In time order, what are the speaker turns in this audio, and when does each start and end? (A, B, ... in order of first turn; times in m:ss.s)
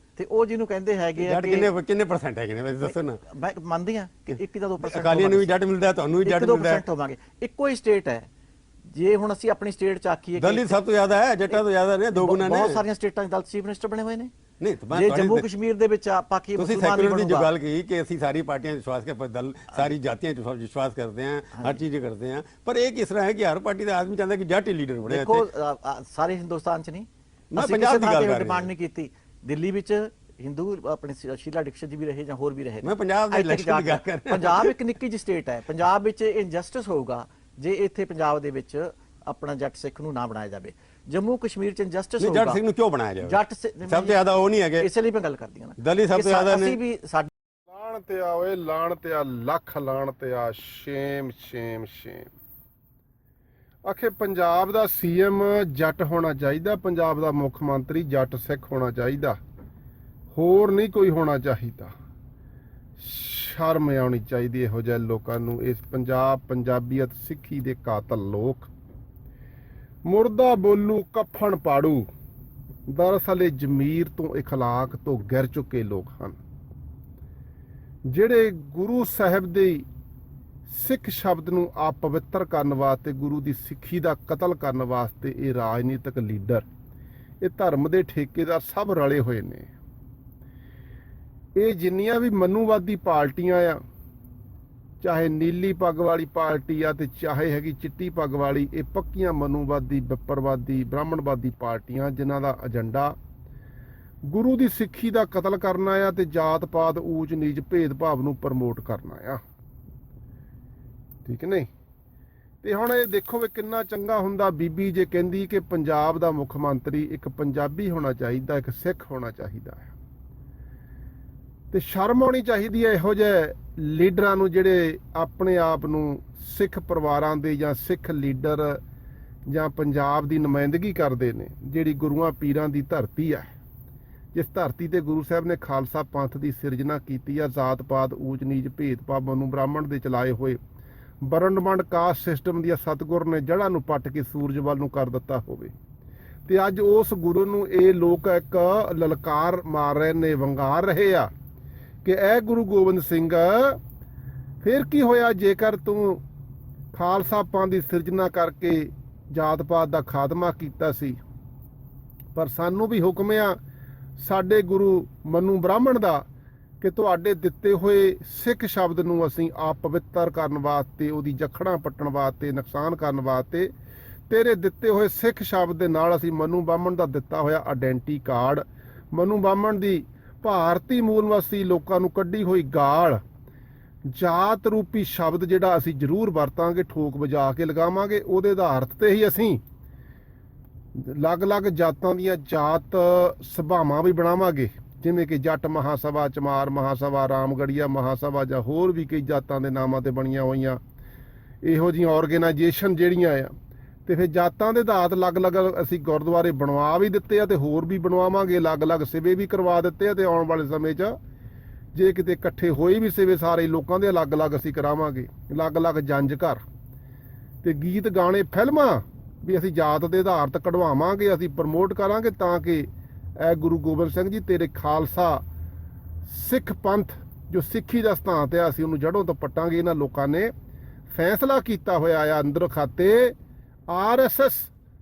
0:00.2-0:01.7 A
0:01.2-0:03.2 B
0:02.8-0:05.5 A
0:04.8-0:06.8 B
0:06.2-0:08.3 A
0:08.9-0:10.8 A
0:10.4-0:12.8 B
0:12.1-0:14.3 A
0:14.6-0:15.5 B
0:14.9-0:17.5 A
0:16.6-0:25.4 B
0:25.1-0:42.6 A
0:27.5-0:28.7 B
0:32.8-0:34.7 B
0:42.2-0:44.9 B
0:43.2-0:44.2 A
0:44.8-0:47.3 A
0:45.8-0:46.8 B
0:47.7-0:52.3 C
0:53.8-0:59.4 C
1:00.3-1:01.9 C
1:03.0-1:08.7 C
1:10.0-1:12.1 C
1:12.9-1:16.4 C
1:18.1-1:19.8 C
1:20.7-1:26.7 C
1:27.4-1:29.7 C
1:31.6-1:33.8 C
1:35.0-1:43.2 C
1:44.3-1:49.4 C
1:51.2-1:51.7 C
1:52.6-1:59.9 C
2:01.7-2:08.8 C
2:09.5-2:13.5 C
2:14.3-2:20.6 C
2:21.2-2:25.7 C
2:26.5-2:31.3 C
2:32.0-2:33.8 C
2:34.6-2:36.2 C
2:36.9-2:41.2 C
2:42.3-2:43.6 C
2:44.2-2:46.3 C
2:46.8-2:53.7 C
2:54.3-3:03.2 C
3:04.1-3:09.6 C
3:11.0-3:20.8 C
3:21.6-3:23.5 C
3:24.0-3:31.2 C
3:31.9-3:36.6 C
3:37.6-3:42.9 C
3:43.4-3:45.4 C
3:46.3-3:50.5 C
3:51.1-3:53.4 C
3:53.9-3:54.7 C